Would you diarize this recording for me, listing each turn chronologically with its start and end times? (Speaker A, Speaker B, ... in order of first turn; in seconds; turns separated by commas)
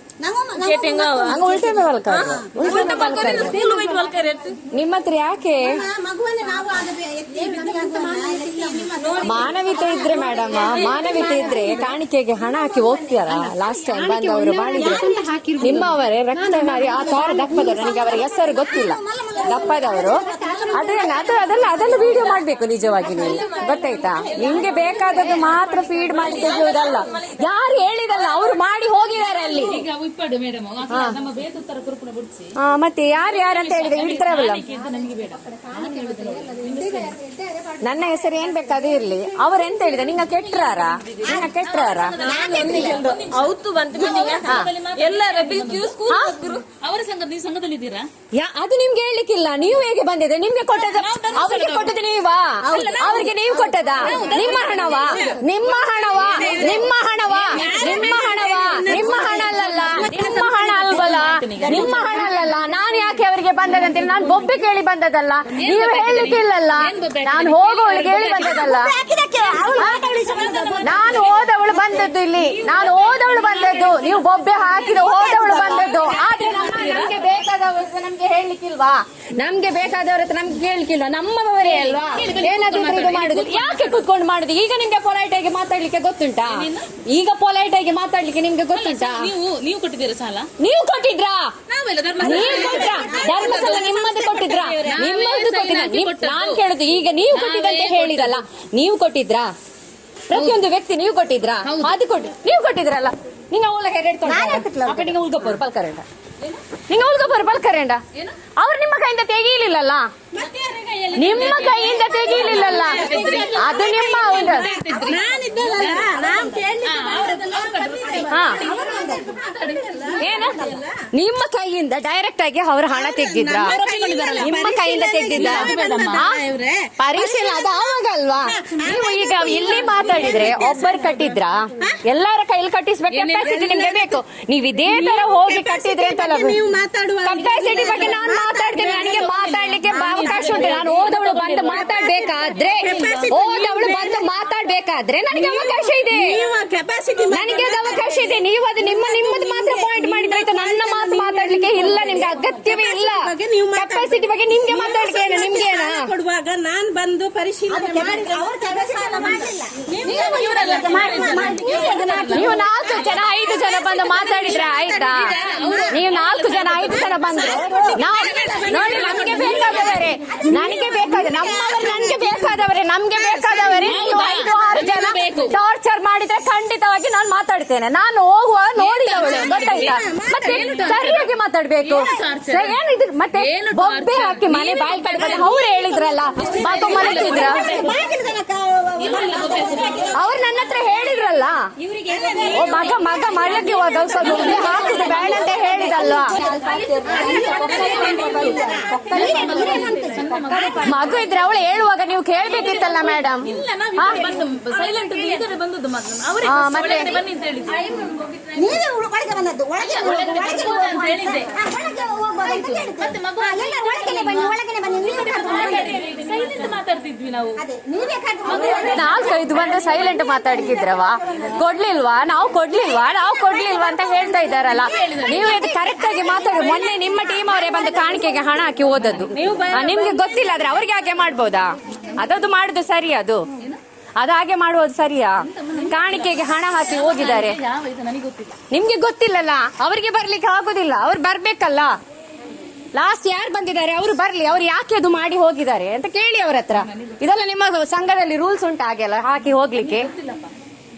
Speaker A: 0.2-2.9, Speaker B: 0.6-1.4, Speaker C: 1.3-3.6, Speaker B: 2.1-4.6, Speaker D: 2.6-4.1, Speaker A: 3.5-3.9, Speaker C: 4.7-5.8, Speaker A: 5.6-14.0, Speaker B: 7.3-11.6, Speaker C: 9.2-15.1, Speaker B: 13.9-18.0, Speaker A: 14.7-16.0, Speaker C: 15.6-29.8, Speaker A: 16.6-22.4, Speaker B: 19.6-21.0, Speaker A: 23.0-27.5, Speaker D: 24.2-25.6, Speaker B: 25.0-27.1, Speaker A: 28.1-29.8, Speaker D: 29.6-32.5, Speaker C: 30.9-31.2, Speaker C: 32.6-34.6, Speaker D: 33.1-37.2, Speaker A: 35.5-39.7, Speaker C: 37.8-42.2, Speaker D: 40.2-48.1, Speaker A: 42.2-43.2, Speaker B: 42.2-46.7, Speaker A: 43.9-44.7, Speaker C: 44.4-44.7, Speaker C: 46.1-46.4, Speaker C: 48.3-68.9, Speaker D: 50.7-52.0, Speaker D: 52.6-53.3, Speaker A: 52.7-55.4, Speaker D: 53.9-55.4, Speaker D: 56.1-58.2, Speaker A: 56.2-60.6, Speaker B: 57.8-58.4, Speaker D: 59.8-62.0, Speaker A: 61.6-62.4, Speaker D: 65.5-68.7, Speaker A: 68.4-72.2, Speaker D: 69.6-71.4, Speaker C: 69.8-70.1, Speaker B: 70.4-70.7, Speaker C: 70.8-89.3, Speaker D: 72.3-77.2, Speaker A: 74.9-76.3, Speaker D: 81.6-84.0, Speaker D: 86.4-86.9, Speaker D: 88.7-90.5, Speaker C: 90.6-91.5, Speaker D: 91.7-96.6, Speaker C: 92.2-99.5, Speaker A: 92.2-94.3, Speaker D: 97.3-98.4, Speaker C: 100.3-106.0, Speaker D: 100.3-100.6, Speaker D: 101.6-102.0, Speaker A: 104.3-105.2, Speaker C: 106.9-108.0, Speaker C: 108.6-110.1, Speaker D: 110.3-116.2, Speaker C: 111.2-114.7, Speaker A: 112.0-119.5, Speaker B: 112.6-113.5, Speaker B: 114.9-118.2, Speaker D: 116.8-120.8, Speaker C: 118.3-118.6, Speaker B: 118.7-119.1, Speaker B: 119.6-120.1, Speaker A: 120.1-120.8, Speaker C: 120.2-123.8, Speaker A: 122.9-131.2, Speaker B: 123.2-124.3, Speaker D: 123.6-124.6, Speaker C: 124.4-126.4, Speaker D: 125.3-126.3, Speaker B: 125.5-126.8, Speaker C: 127.0-136.6, Speaker B: 129.7-131.4, Speaker D: 133.1-134.0, Speaker A: 134.9-139.3, Speaker C: 137.2-146.4, Speaker B: 137.6-137.9, Speaker D: 139.0-143.8, Speaker A: 139.9-140.6, Speaker A: 142.1-144.3, Speaker A: 145.7-146.5, Speaker B: 146.2-148.4, Speaker C: 147.3-156.1, Speaker A: 147.4-148.2, Speaker A: 148.8-149.5, Speaker B: 149.2-162.4, Speaker A: 152.6-153.0, Speaker A: 157.7-165.8, Speaker D: 160.0-162.5, Speaker C: 161.7-165.3, Speaker D: 164.3-170.0, Speaker C: 165.9-187.6, Speaker A: 167.1-174.3, Speaker B: 168.4-169.4, Speaker D: 173.8-175.6, Speaker D: 178.8-181.3, Speaker A: 179.2-180.8, Speaker D: 181.8-182.8, Speaker D: 183.4-185.6, Speaker A: 185.3-190.3, Speaker D: 186.4-188.0, Speaker B: 187.6-188.0, Speaker D: 189.0-190.2, Speaker B: 189.2-190.1, Speaker C: 190.1-191.7, Speaker B: 191.8-200.8, Speaker A: 192.1-201.2, Speaker C: 192.5-196.3, Speaker D: 192.8-195.5, Speaker D: 196.3-201.4, Speaker C: 200.8-204.3, Speaker D: 202.3-208.7, Speaker B: 204.9-205.3, Speaker C: 206.4-207.2, Speaker A: 208.6-216.6, Speaker D: 209.8-211.5, Speaker D: 212.4-217.6, Speaker A: 217.6-221.6, Speaker D: 218.4-220.2, Speaker C: 218.8-233.4, Speaker A: 223.4-224.2, Speaker D: 224.5-225.8, Speaker A: 225.5-228.8, Speaker D: 229.0-230.7, Speaker C: 234.2-237.6, Speaker D: 235.4-238.6, Speaker C: 238.7-241.9, Speaker C: 242.9-250.1, Speaker D: 246.7-247.2, Speaker D: 249.8-250.5